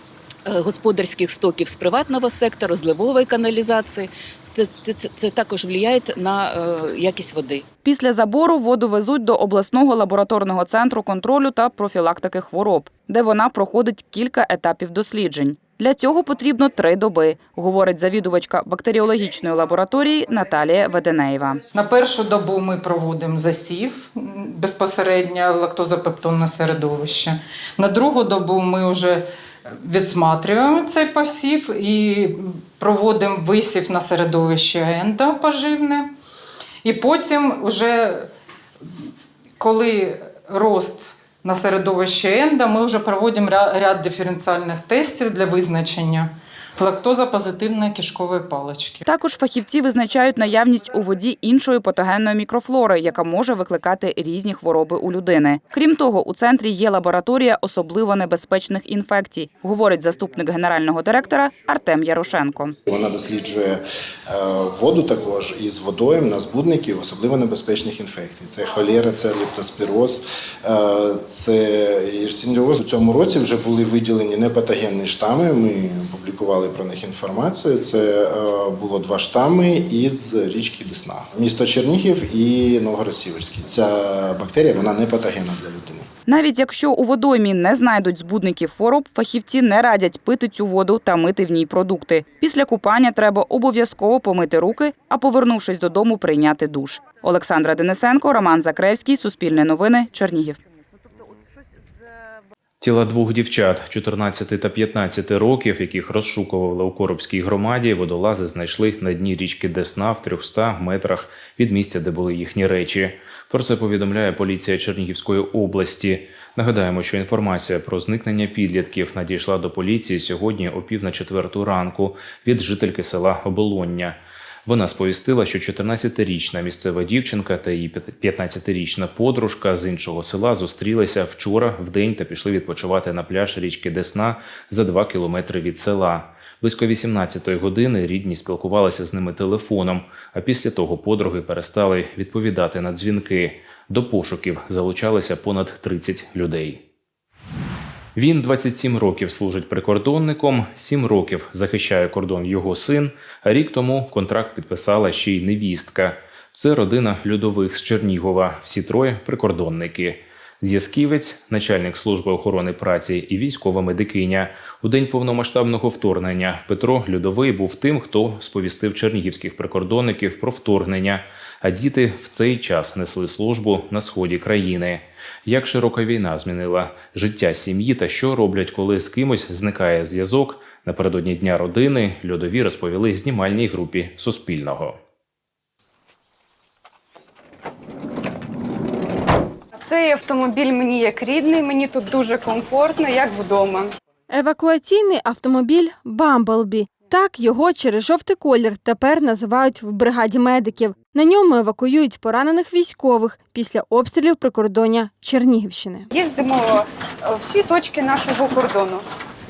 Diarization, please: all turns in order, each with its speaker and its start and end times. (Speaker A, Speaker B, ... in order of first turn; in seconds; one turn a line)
Speaker A: 0.5-7.7
Speaker B: 7.8-21.6
Speaker C: 21.7-29.2
Speaker C: 29.8-36.1
Speaker C: 36.8-38.3
Speaker C: 39.6-49.0
Speaker B: 49.0-62.7
Speaker D: 62.9-86.1
Speaker B: 86.3-100.6
Speaker E: 102.8-146.8
Speaker E: 148.2-185.0
Speaker F: 189.8-193.9
Speaker G: 194.3-206.1
Speaker F: 206.1-209.0